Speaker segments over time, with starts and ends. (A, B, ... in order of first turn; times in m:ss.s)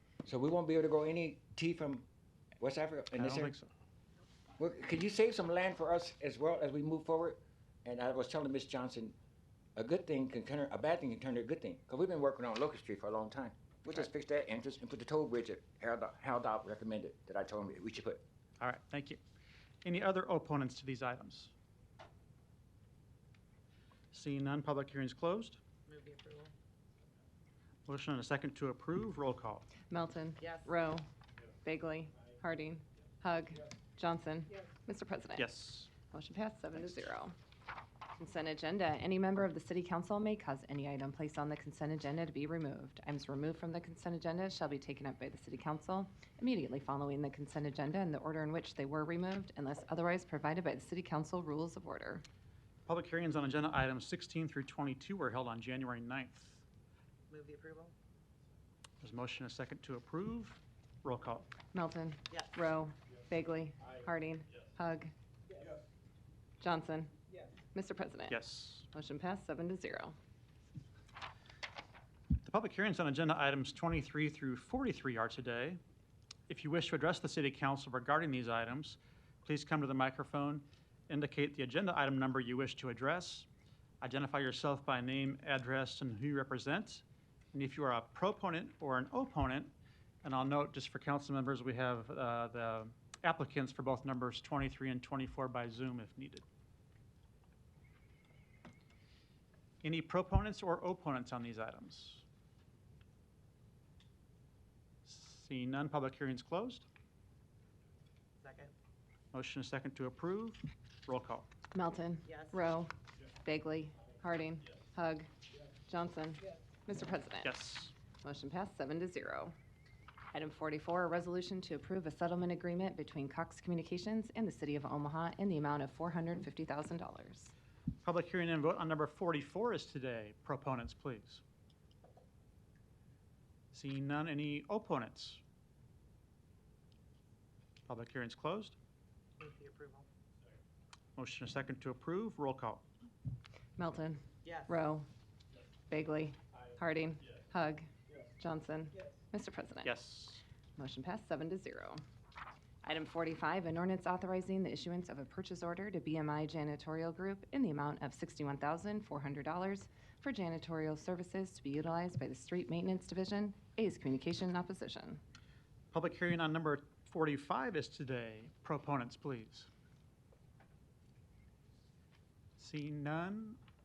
0:00.2-0:02.0 A
0:02.6-0:03.5 A
0:03.2-0:03.7 B
0:04.6-0:09.1 A
0:09.8-0:18.2 A
0:18.6-0:19.2 B
0:19.8-0:21.5 B
0:24.1-0:25.6 B
0:25.9-0:26.5 C
0:27.8-0:29.8 B
0:29.9-0:31.1 D
0:31.6-0:35.5 D
0:35.3-0:35.9 B
0:36.1-0:37.3 D
0:38.2-0:52.2 D
0:52.9-0:56.6 B
0:57.3-0:57.9 C
0:59.0-1:01.5 B
1:01.7-1:05.1 D
1:02.3-1:02.6 C
1:06.6-1:10.1 D
1:08.3-1:08.8 B
1:12.4-1:15.8 B
1:16.5-1:23.5 B
1:24.0-1:29.7 B
1:30.2-1:36.4 B
1:39.8-1:42.2 B
1:45.0-1:46.8 B
1:48.4-1:48.7 C
1:49.3-1:51.5 B
1:51.7-1:52.9 D
1:52.3-1:52.6 C
1:53.4-1:55.3 D
1:55.8-1:57.5 D
1:57.4-1:57.9 B
1:58.2-1:59.5 D
2:00.3-2:07.5 D
2:08.0-2:11.4 B
2:13.7-2:15.4 B
2:17.8-2:18.8 B
2:19.4-2:20.1 C
2:21.2-2:22.8 B
2:23.8-2:25.1 D
2:24.4-2:24.7 C
2:25.9-2:29.9 D
2:29.8-2:30.4 B
2:30.8-2:32.0 D
2:32.8-2:45.2 D
2:45.9-2:49.7 B
2:52.6-2:53.6 B